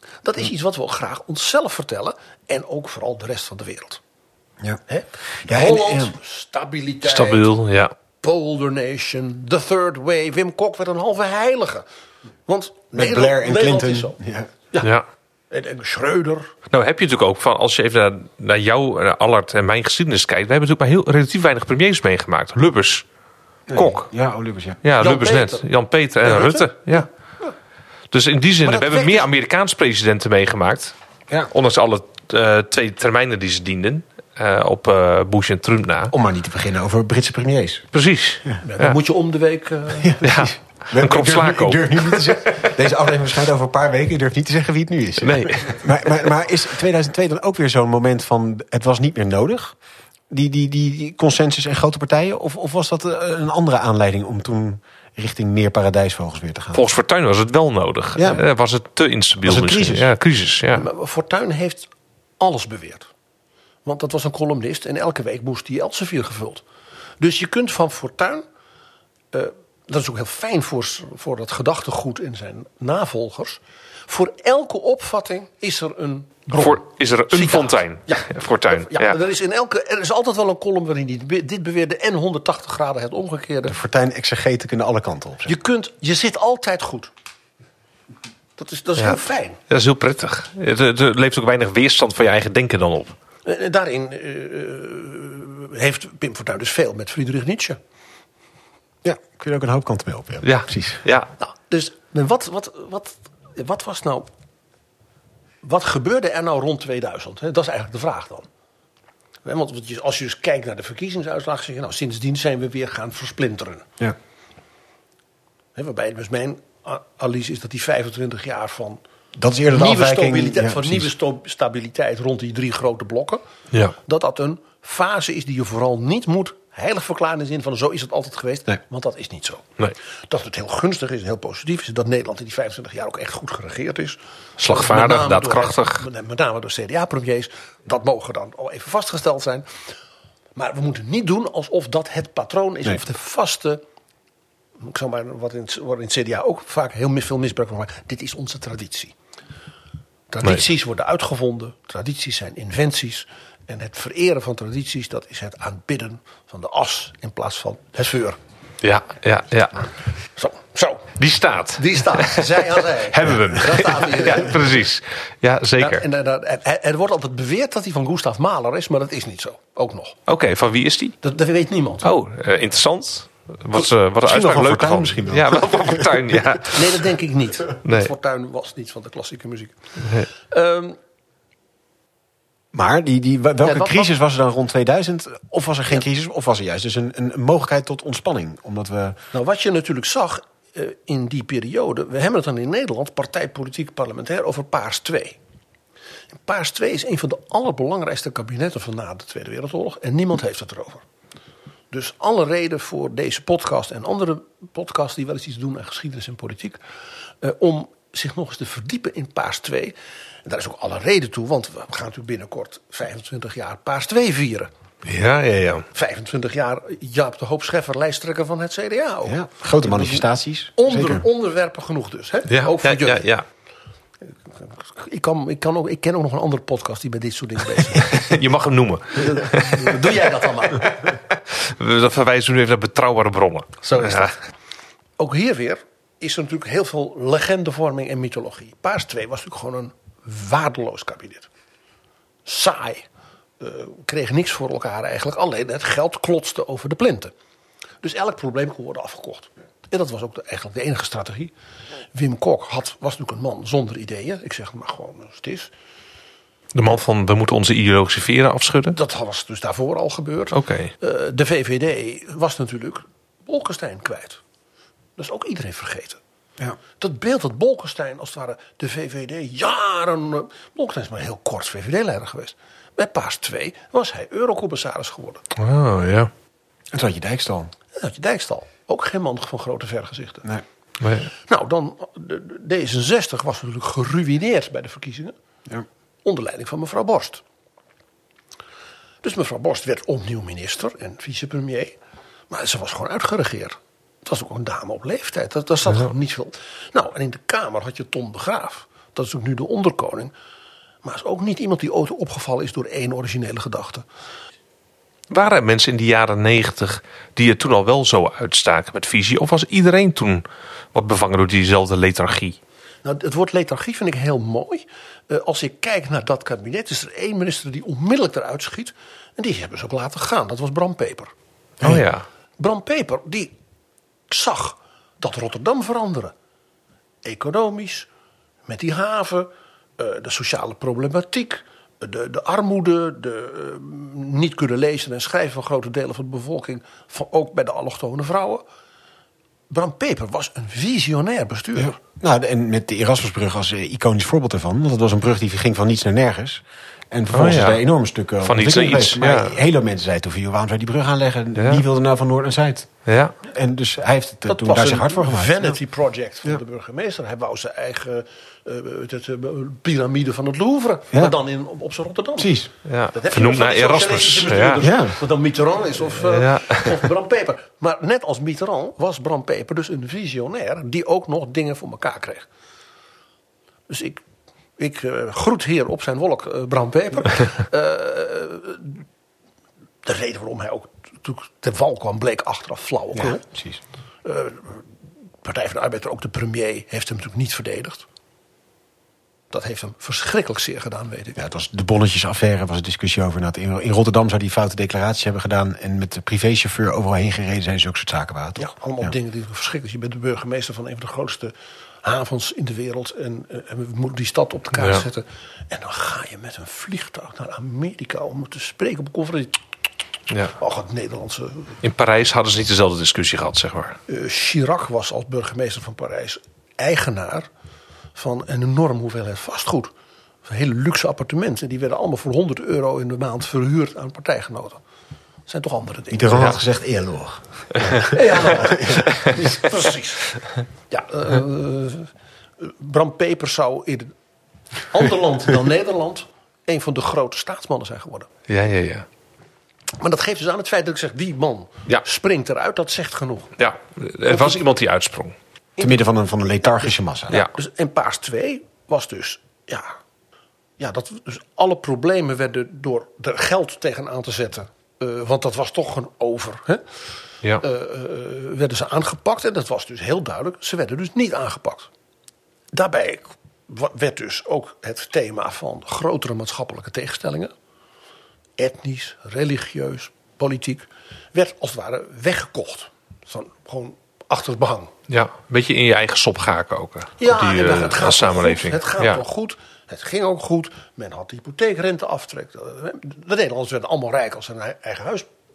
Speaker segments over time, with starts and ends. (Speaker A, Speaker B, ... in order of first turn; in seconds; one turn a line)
Speaker A: 0.2-4.0
Speaker A: 4.9-7.6
Speaker B: 5.4-6.1
Speaker C: 7.0-7.9
Speaker A: 8.2-11.8
Speaker A: 12.5-14.2
Speaker B: 12.9-14.5
Speaker A: 15.5-16.5
Speaker C: 16.7-23.0
Speaker B: 23.7-24.8
Speaker C: 23.7-24.1
Speaker C: 24.8-27.1
Speaker A: 25.0-25.7
Speaker A: 26.2-27.1
Speaker C: 28.1-30.9
Speaker A: 28.6-29.3
Speaker C: 31.5-36.1
Speaker B: 36.1-37.9
Speaker C: 37.9-39.0
Speaker A: 38.6-40.4
Speaker B: 40.0-49.7
Speaker C: 40.2-42.7
Speaker C: 45.2-45.9
Speaker B: 50.3-56.8
Speaker C: 56.7-60.8
Speaker B: 58.1-58.4
Speaker B: 59.4-60.1
Speaker A: 60.7-63.1
Speaker A: 63.8-66.6
Speaker A: 67.2-68.4
Speaker A: 69.3-83.8
Speaker C: 76.5-79.2
Speaker B: 83.7-85.5
Speaker A: 85.4-87.1
Speaker A: 88.6-89.6
Speaker C: 89.0-93.1
Speaker A: 93.4-97.8
Speaker B: 99.0-101.0
Speaker C: 100.4-101.3
Speaker A: 101.4-104.3
Speaker A: 105.6-108.5
Speaker A: 109.4-113.8
Speaker A: 115.8-119.0
Speaker B: 119.3-121.1
Speaker A: 119.7-123.4
Speaker A: 124.0-129.7
Speaker A: 130.3-139.7
Speaker C: 134.6-136.1
Speaker A: 140.5-143.8
Speaker A: 144.8-149.1
Speaker A: 150.3-158.4
Speaker C: 158.8-159.9
Speaker A: 160.3-161.2
Speaker C: 161.2-166.0
Speaker A: 161.7-164.6
Speaker A: 165.8-170.2
Speaker C: 170.3-171.2
Speaker A: 171.2-172.1
Speaker C: 172.0-177.0
Speaker B: 174.2-176.4
Speaker A: 176.7-181.0
Speaker C: 177.8-178.1
Speaker B: 182.7-189.2
Speaker A: 183.6-184.1
Speaker A: 189.3-195.4
Speaker A: 196.4-201.0
Speaker A: 201.9-206.8
Speaker A: 207.4-214.7
Speaker C: 215.0-215.9
Speaker A: 215.9-223.3
Speaker B: 219.2-221.2
Speaker C: 222.5-223.4
Speaker A: 224.5-228.2
Speaker C: 227.9-230.2
Speaker A: 229.2-231.0
Speaker C: 231.5-234.3
Speaker A: 233.8-234.3
Speaker A: 235.2-241.5
Speaker A: 242.4-243.1
Speaker A: 243.6-247.3
Speaker A: 248.0-251.5
Speaker A: 252.1-255.7
Speaker C: 256.7-259.0
Speaker A: 258.9-264.4
Speaker C: 260.5-260.9
Speaker A: 265.2-266.2
Speaker A: 267.0-275.5
Speaker C: 275.6-276.3
Speaker B: 276.9-277.7
Speaker A: 277.9-280.5
Speaker C: 281.0-281.3
Speaker A: 281.4-285.3
Speaker A: 286.2-287.4
Speaker A: 289.2-292.0
Speaker A: 292.5-300.3
Speaker A: 301.0-304.0
Speaker C: 305.3-312.6
Speaker A: 313.0-321.3
Speaker B: 321.8-322.1
Speaker C: 321.8-322.2
Speaker A: 322.6-323.5
Speaker A: 324.3-326.3
Speaker A: 327.2-328.1
Speaker A: 328.7-338.6
Speaker A: 339.7-342.0
Speaker B: 341.7-352.9
Speaker C: 347.3-347.8
Speaker C: 348.4-349.6
Speaker C: 351.6-351.8
Speaker C: 353.1-353.3
Speaker B: 353.4-355.6
Speaker A: 354.5-362.6
Speaker B: 362.4-362.7
Speaker C: 362.8-364.8
Speaker A: 363.1-372.5
Speaker B: 364.8-365.2
Speaker C: 366.2-367.0
Speaker A: 373.9-374.2
Speaker A: 374.8-379.0
Speaker A: 380.0-383.4
Speaker B: 383.1-383.8
Speaker A: 384.2-384.9
Speaker A: 385.4-388.0
Speaker A: 389.5-391.4
Speaker B: 391.4-399.1
Speaker A: 398.6-409.6
Speaker C: 404.8-405.0
Speaker C: 410.3-410.5
Speaker A: 410.6-411.8
Speaker C: 411.8-414.0
Speaker A: 414.1-417.5
Speaker A: 418.1-419.9
Speaker A: 420.4-424.8
Speaker A: 425.5-426.6
Speaker B: 426.1-429.1
Speaker A: 428.1-434.1
Speaker A: 434.8-438.3
Speaker C: 438.5-439.1
Speaker A: 440.0-443.6
Speaker C: 443.6-445.3
Speaker A: 444.2-444.6
Speaker B: 445.8-447.4
Speaker A: 447.3-450.0
Speaker A: 450.8-456.8
Speaker A: 457.6-461.9
Speaker A: 462.7-467.5
Speaker A: 468.6-474.9
Speaker C: 475.1-479.2
Speaker A: 477.2-485.3